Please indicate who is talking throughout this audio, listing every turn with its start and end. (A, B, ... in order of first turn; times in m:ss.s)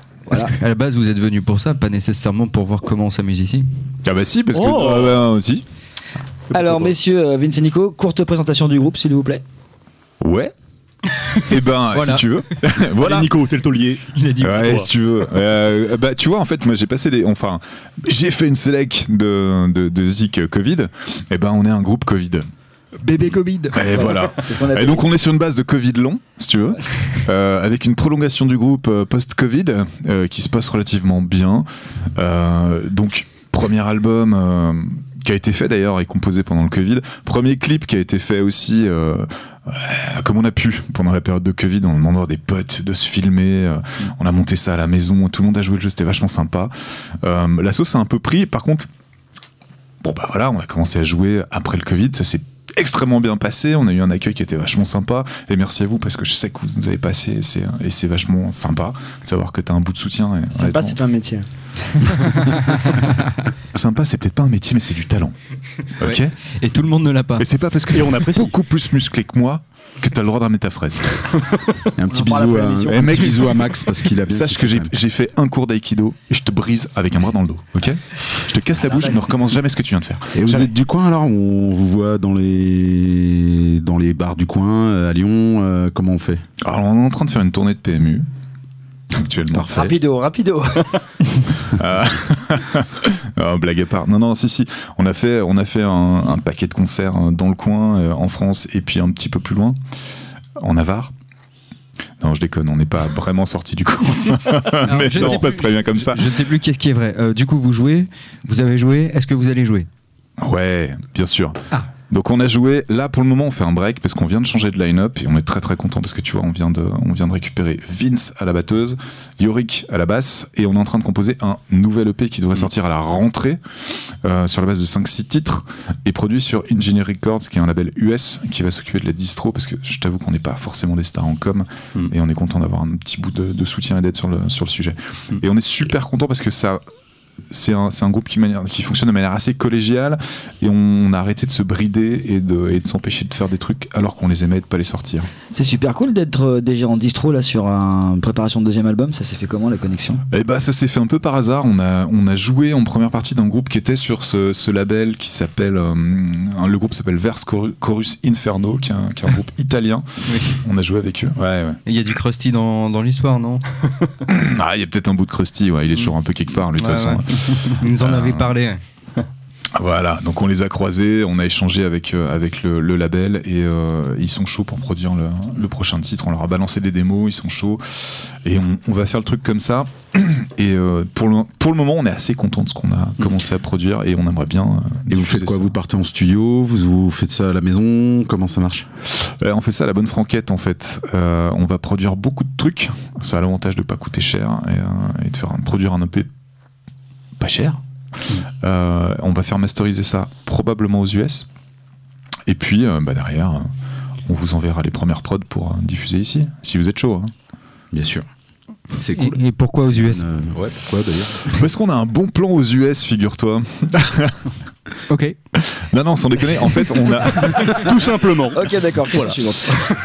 0:00.3-0:03.6 A
0:04.0-0:05.6 B
0:04.5-0:05.2 C
0:06.5-0:06.9 C
0:06.5-0:09.4 D
0:10.2-0:10.5 B
0:11.5-0:13.3 B
0:11.9-0:12.2 A
0:13.0-0:14.0 C
0:14.1-0:14.8 A
0:14.4-0:22.4 B
0:23.0-0:23.8 A
0:23.7-0:46.7 B
0:23.9-0:25.1 D
0:47.2-0:48.9 B
0:50.0-1:01.0 B
1:00.5-1:01.4 E
1:02.1-1:02.9 B
1:03.7-1:05.3 B
1:06.0-1:06.3 B
1:06.0-1:07.4 A
1:07.4-1:11.4 B
1:07.9-1:08.5 C
1:12.0-1:14.9 F
1:12.1-1:13.2 E
1:12.8-1:20.7 B
1:20.3-1:26.4 F
1:26.6-1:28.3 B
1:29.1-1:30.0 B
1:29.6-1:30.9 E
1:31.7-1:39.8 B
1:40.6-1:41.1 B
1:42.2-1:46.2 B
1:44.8-1:49.9 A
1:50.4-1:51.6 B
1:52.1-2:03.6 B
2:04.2-2:16.8 B
2:17.5-2:25.3 B
2:25.5-2:30.2 D
2:30.3-2:41.8 B
2:40.2-2:40.6 A
2:41.9-2:43.6 A
2:44.3-2:48.5 B
2:46.7-2:48.8 A
2:49.8-2:57.8 B
2:58.4-3:05.7 B
3:05.1-3:08.9 F
3:09.2-3:16.3 B
3:17.4-3:17.8 B
3:18.6-3:21.5 B
3:22.5-3:23.7 B
3:24.3-3:27.3 B
3:27.9-3:28.2 F
3:28.9-3:31.6 F
3:29.1-3:30.2 A
3:31.5-3:34.4 B
3:35.1-3:35.4 A
3:35.8-3:37.9 B
3:37.5-3:39.9 C
3:38.5-3:39.8 D